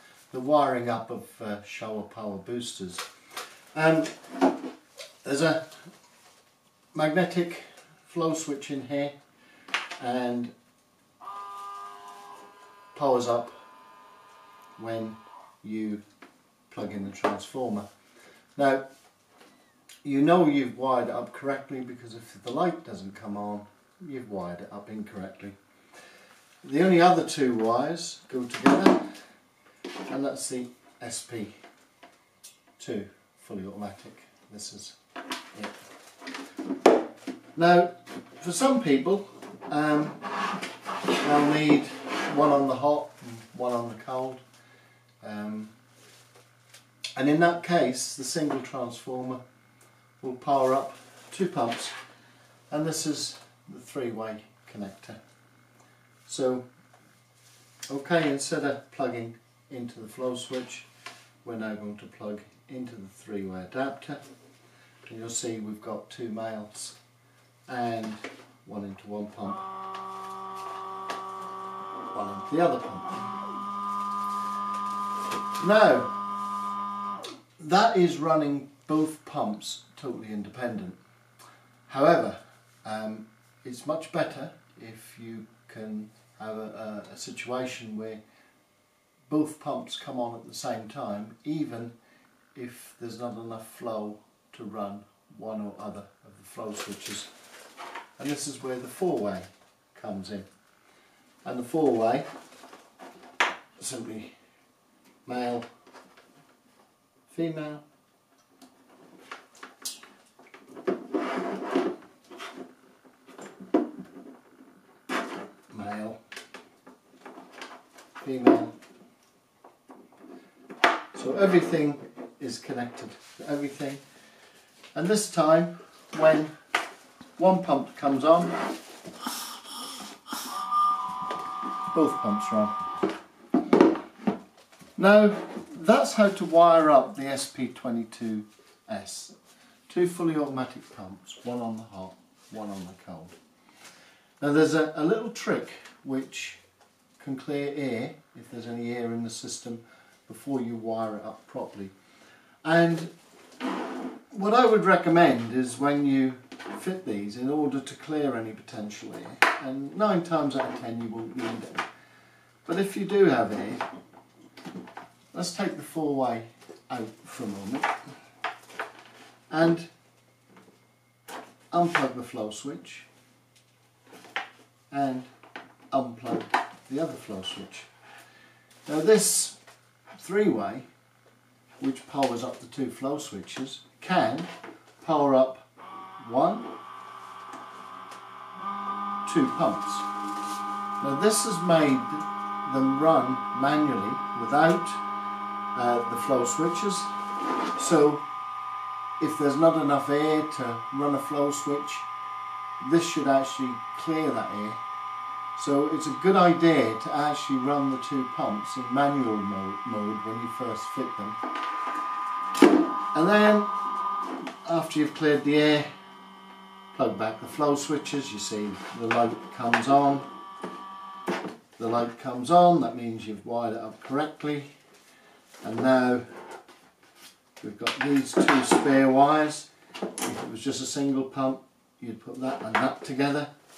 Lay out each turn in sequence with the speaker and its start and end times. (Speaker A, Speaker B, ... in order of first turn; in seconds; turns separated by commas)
Speaker A: 0.3-3.1, Speaker A: 3.7-4.2, Speaker A: 5.2-5.9, Speaker A: 6.9-9.2, Speaker A: 10.0-10.5, Speaker A: 12.9-13.5, Speaker A: 14.8-16.0, Speaker A: 16.7-17.9, Speaker A: 18.6-18.9, Speaker A: 20.0-25.6, Speaker A: 26.6-29.1, Speaker A: 30.1-31.6, Speaker A: 32.8-35.0, Speaker A: 35.5-35.8, Speaker A: 37.5-40.3, Speaker A: 41.2-44.4, Speaker A: 45.2-45.7, Speaker A: 47.2-49.4, Speaker A: 50.2-52.0, Speaker A: 52.7-55.2, Speaker A: 56.3-56.6, Speaker A: 57.9-60.9, Speaker A: 61.4-64.2, Speaker A: 65.0-67.0, Speaker A: 67.7-69.6, Speaker A: 72.1-73.4, Speaker A: 75.6-76.1, Speaker A: 77.6-81.0, Speaker A: 81.9-88.2, Speaker A: 89.3-91.9, Speaker A: 92.5-97.3, Speaker A: 98.2-100.5, Speaker A: 101.4-102.3, Speaker A: 103.8-104.4, Speaker A: 105.2-105.7, Speaker A: 107.3-107.8, Speaker A: 115.7-116.2, Speaker A: 118.2-118.8, Speaker A: 121.1-124.0, Speaker A: 124.9-126.5, Speaker A: 127.4-128.6, Speaker A: 131.9-132.7, Speaker A: 135.0-139.3, Speaker A: 139.9-143.4, Speaker A: 144.4-146.6, Speaker A: 147.2-151.9, Speaker A: 152.6-153.1, Speaker A: 154.3-161.8, Speaker A: 162.7-163.8, Speaker A: 165.3-167.9, Speaker A: 169.5-169.9, Speaker A: 171.7-173.1, Speaker A: 174.9-175.3, Speaker A: 175.9-177.9, Speaker A: 178.8-179.6, Speaker A: 180.2-180.9, Speaker A: 181.8-185.7, Speaker A: 186.2-186.7, Speaker A: 189.2-190.1, Speaker A: 191.0-195.0, Speaker A: 195.8-197.1, Speaker A: 197.8-198.2, Speaker A: 199.2-202.1, Speaker A: 202.8-204.8, Speaker A: 205.6-211.4, Speaker A: 213.1-213.7, Speaker A: 214.7-215.9, Speaker A: 216.9-220.3, Speaker A: 221.8-224.7, Speaker A: 225.6-226.2, Speaker A: 227.6-229.7, Speaker A: 230.2-233.5